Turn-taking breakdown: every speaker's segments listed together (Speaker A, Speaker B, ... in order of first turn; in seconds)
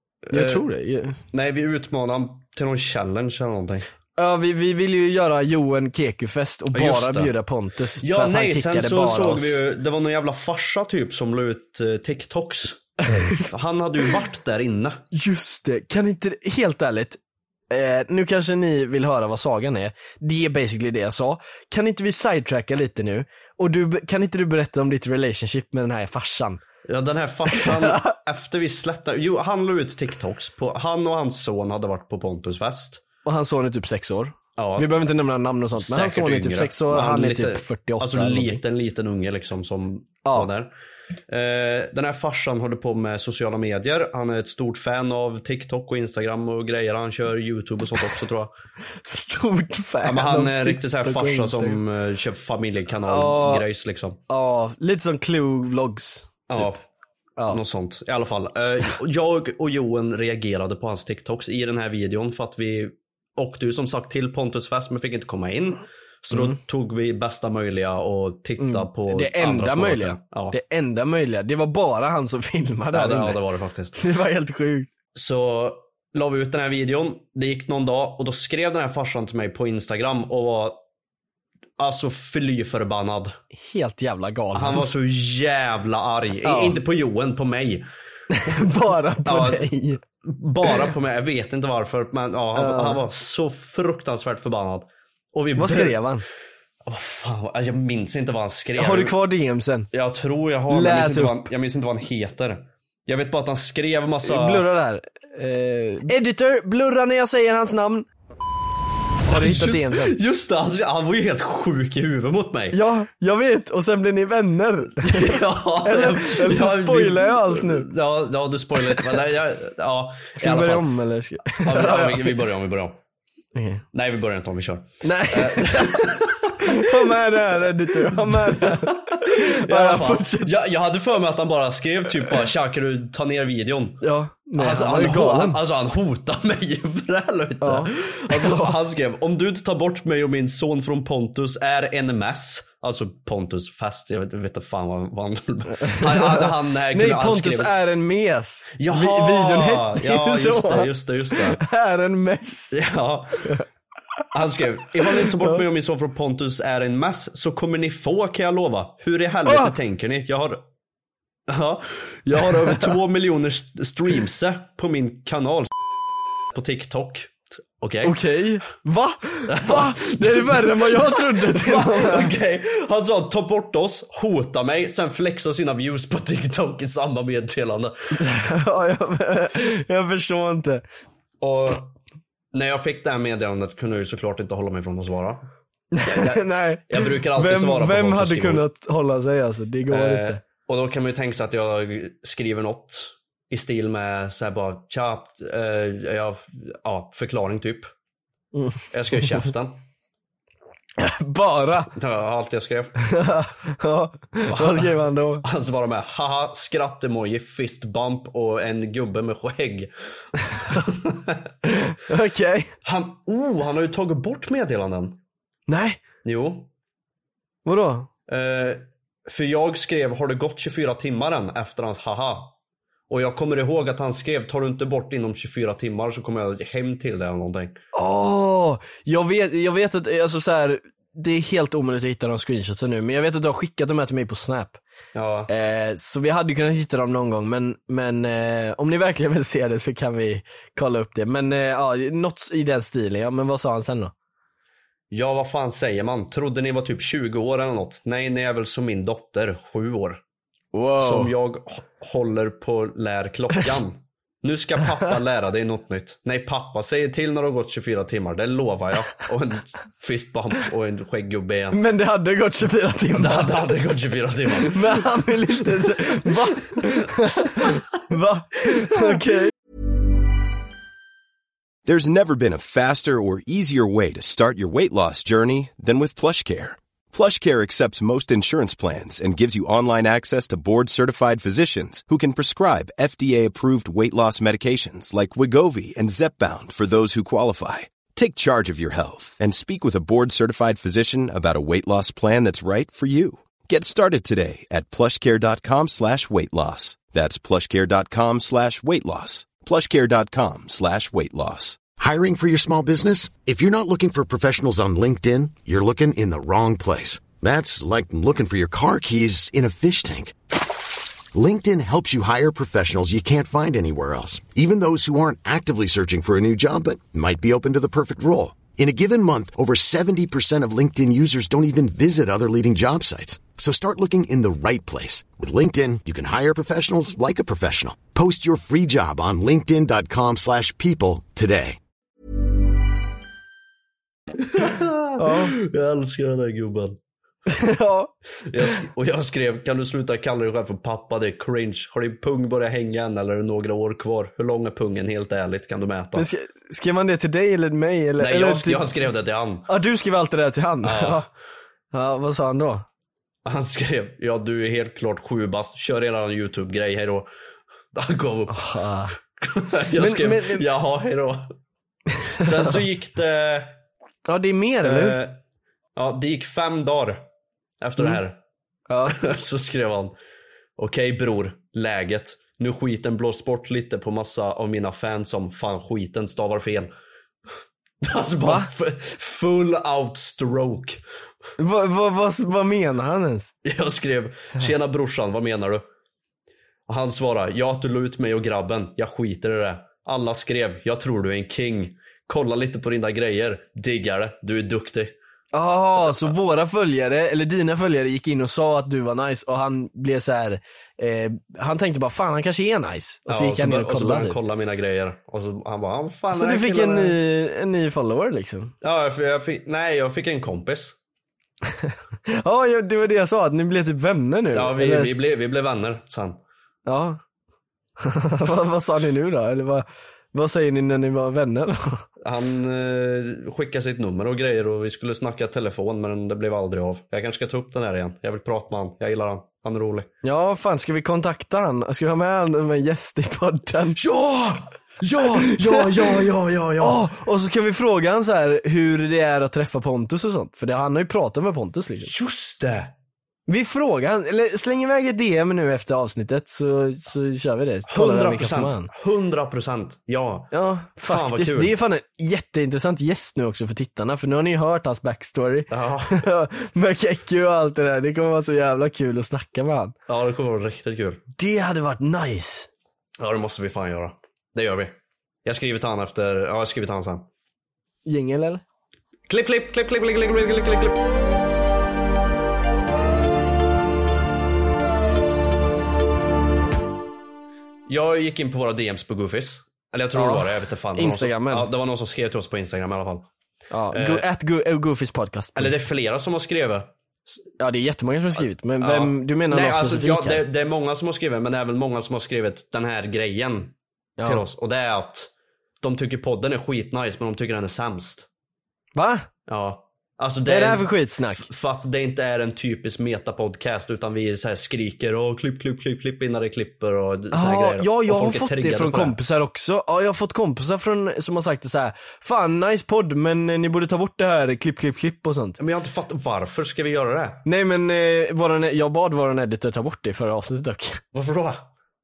Speaker A: 0.3-1.2, 4.2-9.6, 13.1-13.4, 15.1-17.2, 17.7-26.6, 27.6-28.0, 33.2-38.6, 49.0-51.8, 53.0-53.7, 54.3-56.7, 66.3-66.6, 68.6-73.4, 74.0-74.9, 83.6-84.8, 86.4-86.8, 88.3-90.0, 92.5-93.0, 95.6-96.2, 98.8-99.9, 100.7-101.5, 104.2-108.1, 109.3-110.2, 112.7-117.9, 120.4-122.4, 123.5-123.8, 125.0-130.5, 134.0-135.6, 137.6-138.8, 145.8-152.8, 155.1-155.6, 159.5-159.7, 168.0-172.3, 178.2-180.8, 185.9-190.4, 198.5-198.8, 201.0-201.9, 203.1-205.4, 211.7-212.7, 215.7-216.0, 217.7-218.1, 227.9-234.8, 235.5-244.1, 250.7-251.3, 261.7-263.7, 264.7-269.5, 335.2-335.6, 337.5-338.1, 346.1-348.9, 349.7-351.3, 351.9-352.9, 358.5-359.1, 360.0-360.7, 362.4-362.7, 364.3-365.2, 368.9-369.2, 381.6-383.5, 395.5-404.4, 406.3-408.7, 411.8-415.1, 416.9-417.2, 418.0-422.1, 430.2-434.0, 435.4-436.2, 436.8-442.1, 443.5-448.9, 450.5-459.9, 461.4-462.7, 468.1-468.6, 480.1-481.7, 483.7-485.8, 487.6-490.4, 494.2-494.4, 499.0-499.3, 500.5-501.5, 507.3-515.6, 517.5-521.0
Speaker B: 0.3-0.7, 1.3-3.9, 6.7-7.3, 8.0-15.0, 26.9-33.0, 34.6-34.9, 35.8-40.7, 41.3-48.5, 50.0-54.2, 56.5-56.8, 57.5-70.6, 72.9-74.0, 75.2-80.8, 81.8-83.3, 84.5-87.9, 89.2-89.7, 90.2-96.0, 96.9-99.2, 99.9-104.7, 109.3-112.8, 115.0-120.9, 121.6-123.0, 123.9-127.2, 127.9-134.0, 134.6-147.7, 148.8-151.6, 152.7-153.5, 154.3-160.6, 161.5-165.7, 166.5-168.2, 169.5-178.2, 181.4-181.9, 182.5-185.5, 186.1-188.7, 189.9-197.9, 198.9-199.8, 201.9-203.0, 204.5-209.9, 210.5-211.4, 212.8-215.2, 216.2-216.7, 218.3-222.5, 223.1-227.8, 235.2-235.5, 245.1-250.2, 251.0-261.8, 263.1-265.1, 265.8-266.8, 334.5-337.0, 338.5-346.3, 348.2-349.7, 350.8-351.3, 353.4-357.3, 357.9-358.7, 359.4-361.4, 362.4-363.7, 364.8-365.4, 366.0-367.2, 367.8-368.4, 369.1-370.1, 370.8-376.9, 378.0-381.0, 383.6-385.9, 386.9-395.1, 403.3-407.2, 408.8-411.0, 414.5-416.4, 422.2-430.1, 434.0-437.0, 442.1-442.9, 447.9-450.5, 451.0-451.7, 455.7-456.2, 460.1-461.2, 463.2-467.3, 469.3-471.0, 477.9-483.3, 483.9-484.2, 485.6-486.9, 488.8-495.3, 495.8-498.3, 499.5-509.2, 515.6-517.4, 521.1-521.6
Speaker C: 271.9-301.8
Speaker D: 302.0-310.4, 311.3-331.8